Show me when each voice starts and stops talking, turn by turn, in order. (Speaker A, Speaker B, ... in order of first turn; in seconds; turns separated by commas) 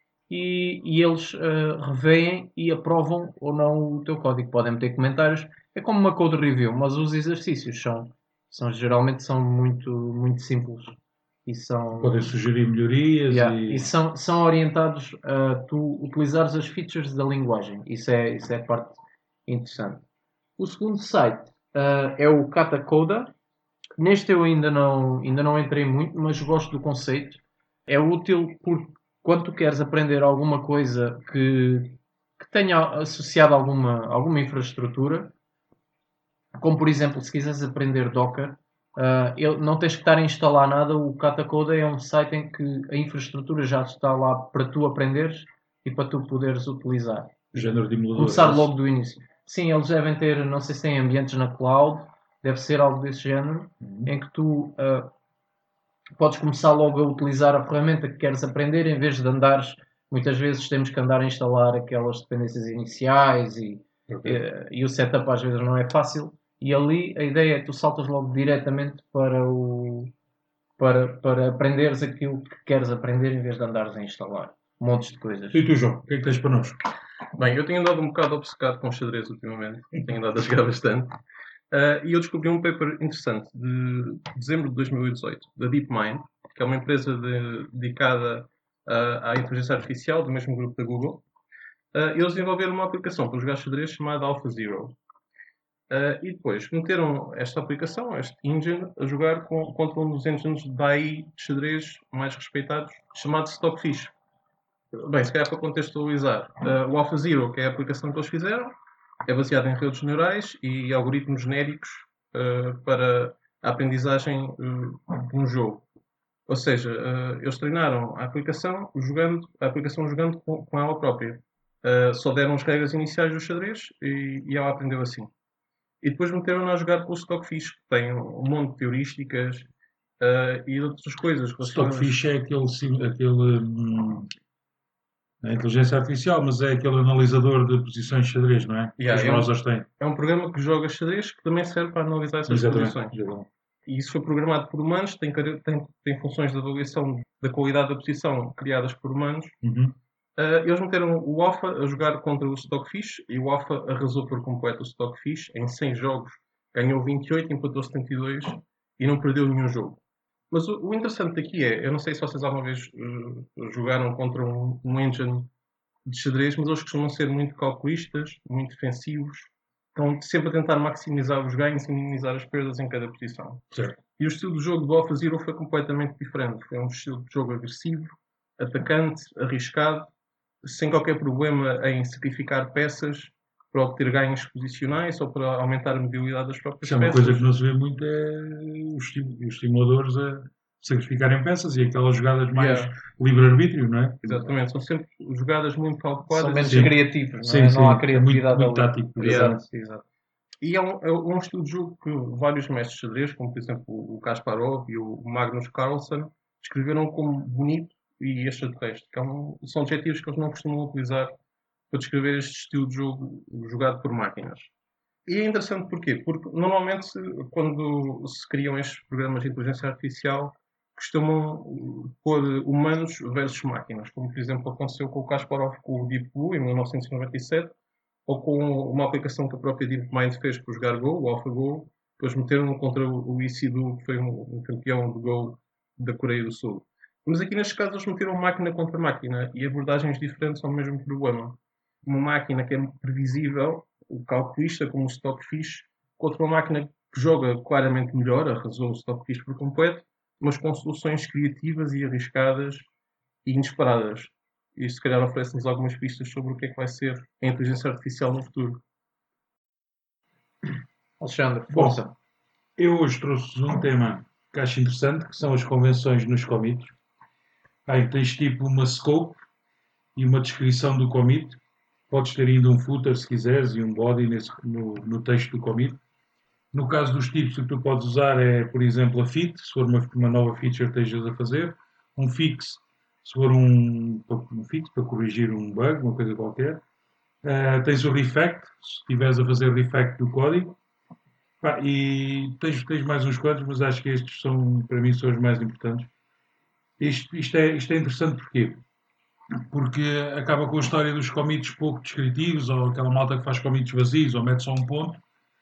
Speaker A: 0.3-12.3, Speaker B: 12.0-13.9, Speaker A: 13.3-20.0, Speaker A: 20.6-23.3, Speaker A: 24.0-35.3, Speaker A: 36.5-47.4, Speaker B: 47.5-48.7, Speaker A: 48.1-55.1, Speaker B: 53.8-54.1, Speaker A: 56.2-70.1, Speaker B: 64.1-64.4, Speaker A: 70.8-75.6, Speaker B: 75.5-76.8, Speaker C: 77.3-81.1, Speaker C: 81.7-91.2, Speaker C: 91.9-95.0, Speaker C: 95.9-104.1, Speaker C: 104.9-108.7, Speaker C: 109.2-115.8, Speaker C: 116.5-125.3, Speaker C: 126.0-129.7, Speaker C: 130.2-132.1, Speaker B: 131.6-134.3, Speaker B: 135.4-139.8, Speaker C: 139.0-143.2, Speaker B: 142.5-143.5, Speaker C: 143.8-149.5, Speaker B: 149.6-149.9, Speaker C: 150.4-160.0, Speaker C: 160.5-165.5, Speaker C: 166.0-173.6, Speaker B: 173.7-174.0, Speaker C: 174.2-180.1, Speaker C: 180.6-187.5, Speaker B: 186.8-194.5, Speaker C: 192.5-192.9, Speaker C: 194.2-196.9, Speaker A: 196.3-200.0, Speaker B: 196.6-199.6, Speaker C: 199.2-199.6, Speaker C: 200.6-211.3, Speaker C: 211.9-214.7, Speaker C: 215.2-227.7, Speaker C: 228.3-252.9, Speaker C: 253.4-258.8, Speaker A: 261.2-262.1, Speaker B: 261.7-262.0, Speaker B: 262.8-266.9, Speaker B: 267.9-269.4, Speaker B: 270.1-276.0, Speaker B: 276.7-286.8, Speaker B: 287.4-290.8, Speaker B: 291.6-296.1, Speaker B: 297.0-298.8, Speaker B: 299.6-305.2